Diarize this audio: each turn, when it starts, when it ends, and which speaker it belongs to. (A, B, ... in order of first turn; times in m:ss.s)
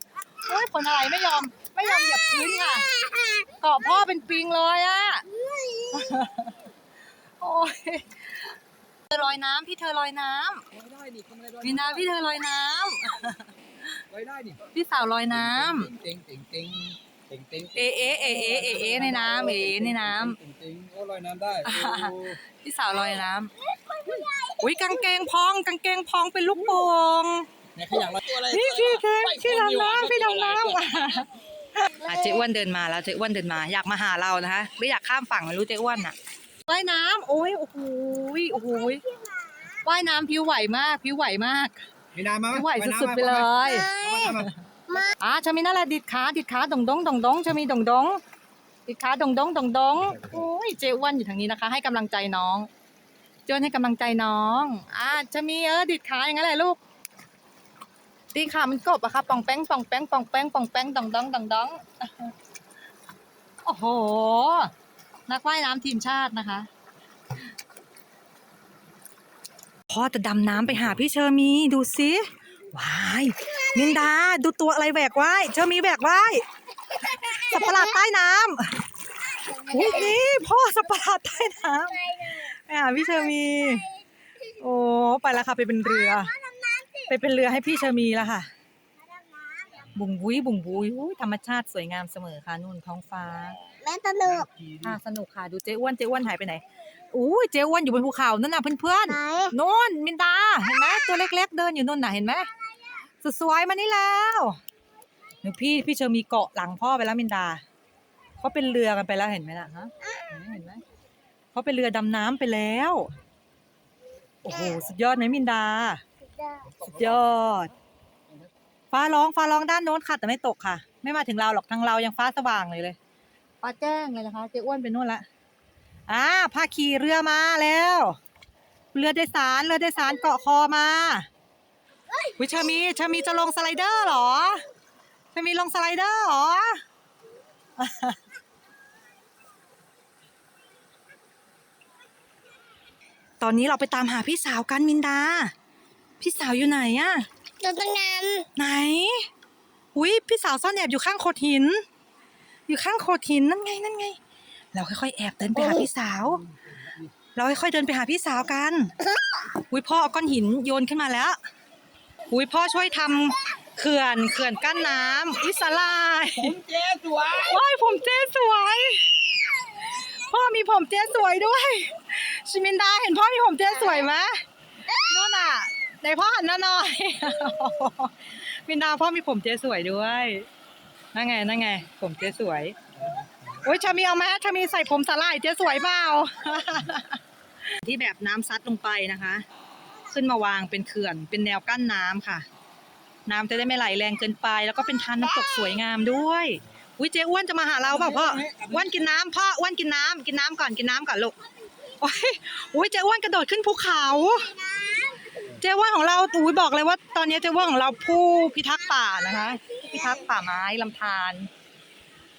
0:00.4-0:02.9 A
0:02.0-0:03.5 B
0:03.6-0:05.2 A
0:05.3-0:06.2 B
0:05.9-0:06.6 A
0:07.4-0:08.5 A
0:09.1-0:10.6 A
0:10.7-0:12.0 C
0:11.6-0:13.5 A
0:14.1-0:14.6 C
0:14.7-0:15.9 A
0:15.3-0:22.4 C
0:17.8-0:20.4 A
0:21.6-0:23.5 A
0:23.9-0:24.9 B
0:24.6-0:39.0 A
0:27.8-0:30.8 C
0:39.0-0:39.5 B
0:39.8-0:41.8 A
0:42.1-0:44.5 C
0:42.5-0:44.5 A
0:43.6-0:45.1 B
0:45.1-0:48.2 A
0:48.8-0:52.7 A
0:53.5-0:56.8 A
0:58.3-1:02.3 A
1:03.6-1:04.7 A
1:05.3-1:06.7 A
1:09.9-1:16.4 A
1:17.0-1:18.8 A
1:19.4-1:19.9 B
1:19.5-1:23.9 A
1:24.5-1:26.3 A
1:25.9-1:27.1 B
1:27.1-1:28.5 A
1:29.2-1:29.8 B
1:29.9-1:33.6 A
1:33.8-1:34.5 B
1:34.2-1:35.0 C
1:34.8-1:42.5 A
1:39.1-1:39.5 B
1:43.2-1:44.6 A
1:45.4-1:47.6 A
1:48.4-1:50.8 A
1:51.5-1:53.1 A
1:54.4-1:56.0 A
1:56.3-1:56.7 B
1:56.6-1:57.2 C
1:56.9-1:57.7 A
1:58.9-2:03.0 A
2:03.6-2:05.2 A
2:06.1-2:08.2 A
2:08.9-2:11.3 A
2:12.3-2:14.6 A
2:15.3-2:16.8 A
2:17.8-2:18.2 A
2:23.4-2:25.5 A
2:26.2-2:27.2 A
2:27.6-2:28.5 B
2:28.6-2:29.3 A
2:29.9-2:31.8 A
2:32.7-2:34.2 A
2:34.7-2:36.4 A
2:37.3-2:38.9 A
2:39.5-2:41.4 A
2:42.3-2:46.6 A
2:46.4-2:47.6 C
2:47.4-3:00.5 A
3:01.1-3:02.8 A
3:03.5-3:07.2 A
3:07.7-3:09.4 A
3:10.1-3:12.5 A
3:13.3-3:21.4 A
3:17.8-3:19.0 C
3:22.0-3:24.5 A
3:24.5-3:25.5 B
3:25.6-3:31.5 A
3:29.6-3:29.9 B